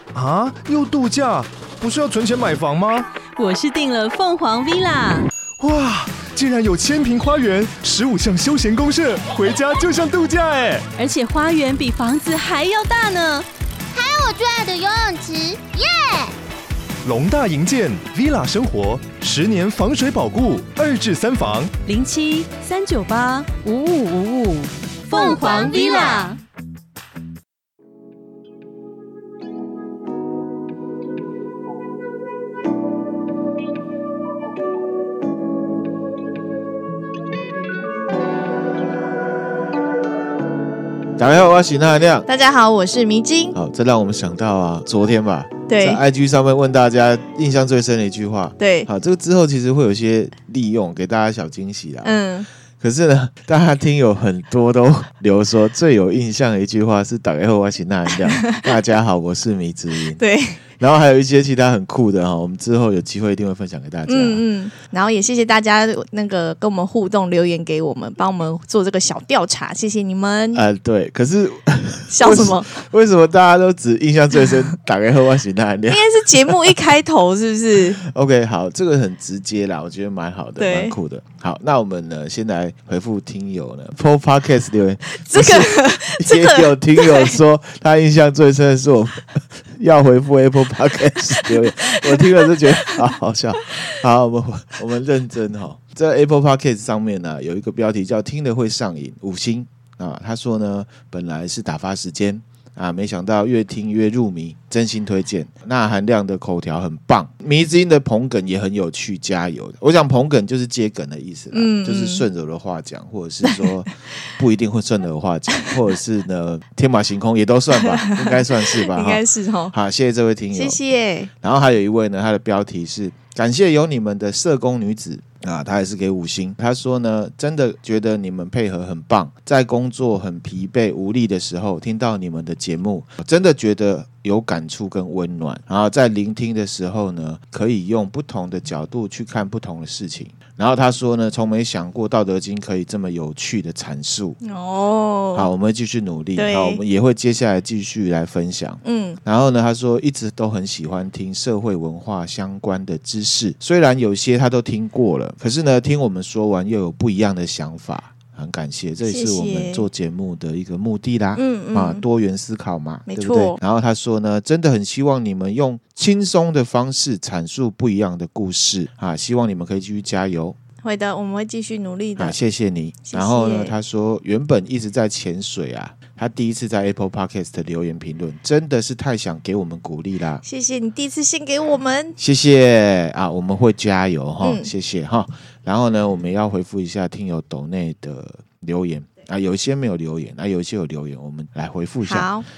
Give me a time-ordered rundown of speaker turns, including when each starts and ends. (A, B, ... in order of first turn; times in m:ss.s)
0:00.1-0:03.1 A
0:03.4-0:05.3 B
0:05.6-0:10.9 A
0:11.0-0:13.5 B
0:13.9-0:16.4 C
0:17.0-0:21.7 A
0:21.9-0:26.4 B
0:25.1-0:26.4 C
0:41.2-0:42.3 D
0:42.3-0:43.6 E
0:43.6-0:52.2 D
0:45.7-0:46.0 E
0:48.6-0:48.9 E
0:52.0-0:52.5 E
0:52.8-1:04.4 D
0:58.3-0:58.7 E
1:00.1-1:00.6 E
1:04.1-1:10.6 E
1:10.5-1:16.8 D
1:12.1-1:12.8 E
1:15.9-1:18.0 E
1:17.9-2:00.8 D
1:20.6-1:21.0 E
1:25.2-1:27.4 E
1:31.3-1:33.1 E
1:51.5-1:52.3 E
1:53.4-1:53.7 E
1:57.8-1:59.7 E
2:00.5-2:01.3 E
2:01.4-2:24.4 D
2:24.4-2:25.5 E
2:25.3-2:50.6 D
2:26.4-2:26.8 E
2:28.8-2:29.2 E
2:39.0-2:39.9 E
2:41.4-2:42.0 E
2:43.1-2:43.6 E
2:50.8-2:52.4 E
2:52.2-3:00.4 D
2:53.1-2:53.8 E
3:00.4-3:02.2 E
3:02.2-3:12.3 D
3:04.4-3:04.7 E
3:12.0-3:12.4 E